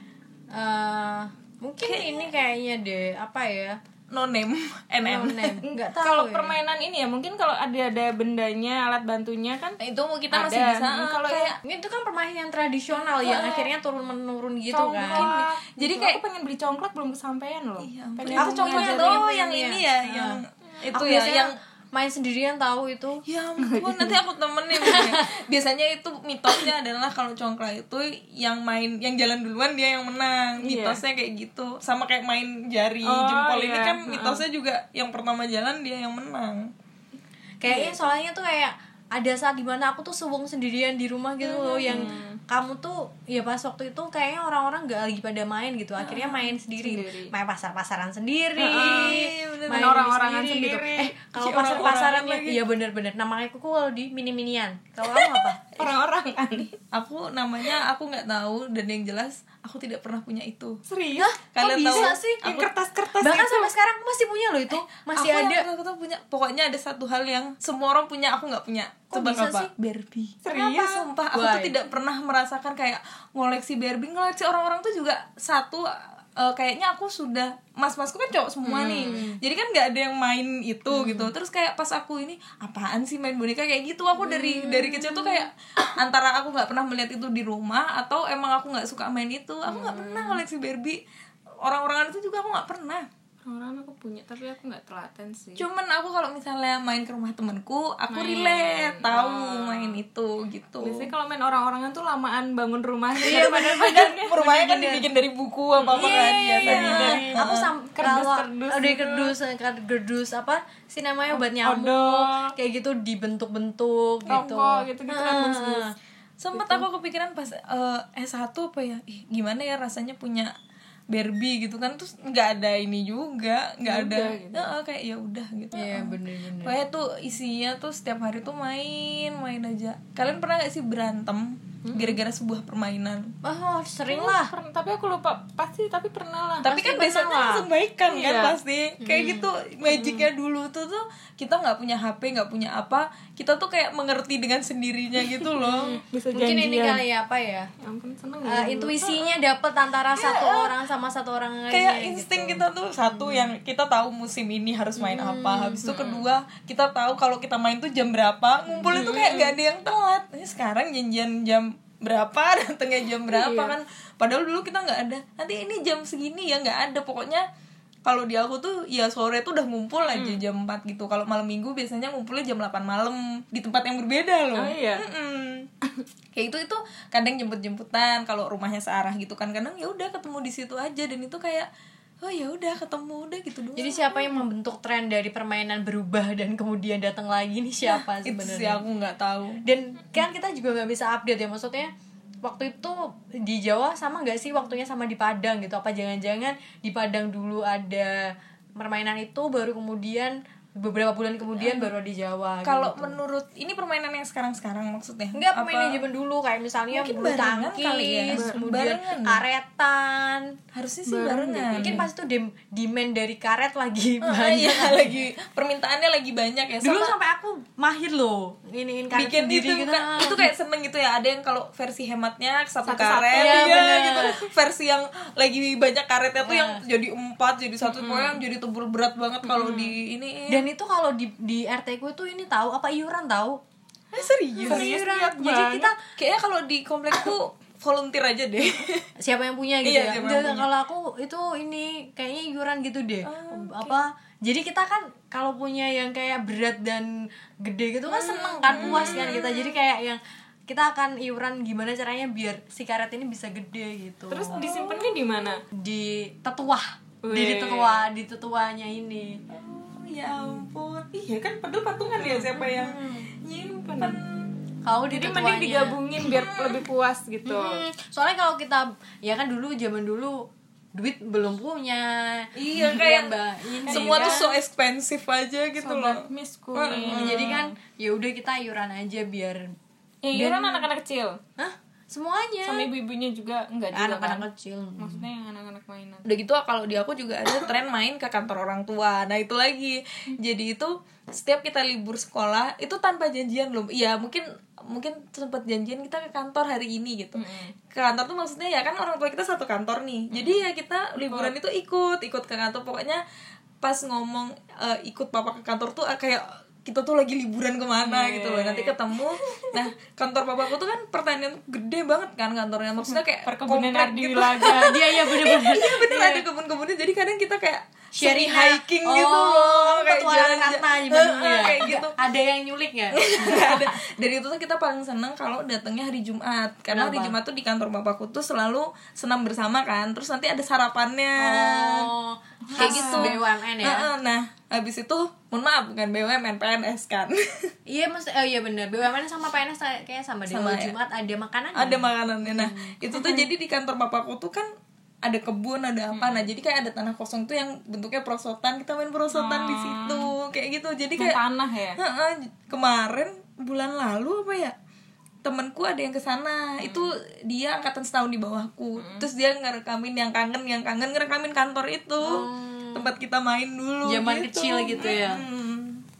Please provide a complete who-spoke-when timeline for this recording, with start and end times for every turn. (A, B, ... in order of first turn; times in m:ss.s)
0:00.5-0:03.8 A
0:01.8-0:02.3 B
0:04.1-0:05.6 B
0:05.0-0:06.5 A
0:05.6-0:09.8 C
0:09.8-0:11.6 B
0:10.3-0:11.6 C
0:11.6-0:15.3 A
0:13.0-0:13.7 C
0:13.3-0:13.6 B
0:14.7-0:19.2 C
0:15.0-0:16.2 B
0:17.8-0:21.5 B
0:18.3-0:20.4 A
0:20.9-0:23.2 A
0:23.2-0:36.7 B
0:23.6-0:24.2 C
0:24.8-0:25.3 A
0:30.6-0:31.0 C
0:33.0-0:34.4 C
0:37.6-0:55.6 A
0:37.6-0:38.0 C
0:41.6-0:42.1 B
0:41.8-0:42.4 C
0:46.1-0:47.3 C
0:48.6-0:51.1 C
0:48.7-0:50.0 B
0:51.3-0:52.6 B
0:55.2-0:56.7 C
0:56.9-1:00.8 B
1:00.9-1:03.7 C
1:01.2-1:02.6 A
1:01.5-1:02.7 B
1:03.2-1:05.6 A
1:05.1-1:31.0 B
1:09.1-1:09.7 A
1:10.4-1:11.1 C
1:11.3-1:11.8 A
1:18.6-1:19.2 C
1:18.8-1:19.4 A
1:20.9-1:21.3 A
1:24.2-1:25.4 C
1:29.6-1:30.4 C
1:31.6-1:33.1 B
1:33.4-1:35.6 C
1:35.6-1:41.1 B
1:38.1-1:40.0 C
1:40.8-1:44.9 C
1:43.2-1:44.0 A
1:43.2-1:47.7 B
1:44.6-1:45.0 A
1:45.8-1:49.3 C
1:45.9-1:55.9 A
1:51.3-1:52.5 C
1:54.3-1:55.9 C
1:54.3-1:54.6 B
1:56.4-2:00.5 B
1:56.5-1:56.8 C
2:01.1-2:13.3 B
2:03.8-2:04.7 C
2:05.7-2:06.8 A
2:11.8-2:12.2 C
2:13.4-2:14.5 A
2:14.1-2:16.7 C
2:16.6-2:26.0 B
2:16.6-2:17.7 A
2:18.0-2:18.6 C
2:19.0-2:19.5 A
2:19.9-2:20.2 C
2:25.6-2:27.0 C
2:25.8-2:27.7 A
2:27.8-2:29.3 C
2:28.4-2:33.5 A
2:30.2-2:30.7 B
2:31.7-2:47.4 B
2:35.0-2:35.9 A
2:35.8-2:36.3 C
2:38.8-2:39.4 A
2:38.8-2:39.5 C
2:43.4-2:43.7 A
2:48.0-2:55.7 B
2:50.0-2:50.4 C
2:54.6-2:55.0 C
2:56.3-3:01.7 B
3:02.2-3:04.3 B
3:03.7-3:08.8 A
3:07.9-3:09.6 B
3:09.6-3:11.9 A
3:12.4-3:23.2 A
3:22.6-3:26.0 B
3:25.3-3:30.6 A
3:26.9-3:29.4 B
3:28.3-3:28.6 C
3:30.7-3:32.0 B
3:31.1-3:32.0 C
3:31.1-3:35.2 A
3:34.2-3:37.1 B
3:36.8-3:40.5 A
3:39.1-3:50.6 B
3:42.8-3:44.4 C
3:43.3-3:44.4 A
3:46.4-3:46.8 A
3:47.8-3:48.4 C
3:49.4-3:50.0 C
3:50.5-3:53.6 A
3:54.1-3:56.0 A
3:54.1-3:59.1 B
3:54.6-3:55.9 C
3:59.2-4:14.6 A
3:59.8-4:00.7 B
4:03.2-4:04.0 B
4:08.1-4:09.8 B
4:08.7-4:09.1 C
4:14.3-4:15.6 C
4:14.5-4:15.5 B
4:15.7-4:19.4 A
4:17.2-4:18.1 C
4:19.5-4:24.5 B
4:22.2-4:22.7 C
4:22.6-4:23.3 A
4:23.8-4:24.2 C
4:24.8-4:26.0 A
4:25.1-4:27.8 C
4:26.2-4:26.8 B
4:27.4-4:34.5 A
4:32.5-4:36.2 B
4:33.9-4:34.4 C
4:35.8-4:37.7 C
4:36.7-4:37.6 B
4:37.1-4:39.7 A
4:40.2-4:41.4 C
4:40.3-4:40.8 A
4:41.6-4:42.9 A
4:42.6-4:44.4 C
4:43.9-4:45.2 A
4:45.0-4:46.3 C
4:46.2-5:03.2 B
4:57.3-4:57.7 C
5:00.3-5:00.6 C
5:01.2-5:01.5 C
5:03.8-5:22.2 B
5:08.0-5:09.9 C
5:13.0-5:15.0 C
5:14.6-5:16.4 A
5:18.2-5:24.0 A
5:23.1-5:32.1 B
5:26.9-5:27.4 A
5:31.4-5:34.1 A
5:32.6-5:33.4 C
5:32.8-5:37.7 B
5:37.9-5:43.0 A
5:40.5-5:40.9 B
5:41.7-5:44.7 B
5:43.1-5:43.4 C
5:45.2-5:51.4 B
5:46.1-5:46.5 C
5:49.3-5:50.3 C
5:51.2-5:52.0 C
5:52.0-5:54.7 B
5:55.4-6:06.0 B
5:56.8-5:57.1 C
5:59.0-5:59.3 C
6:02.2-6:03.1 A
6:04.0-6:05.4 A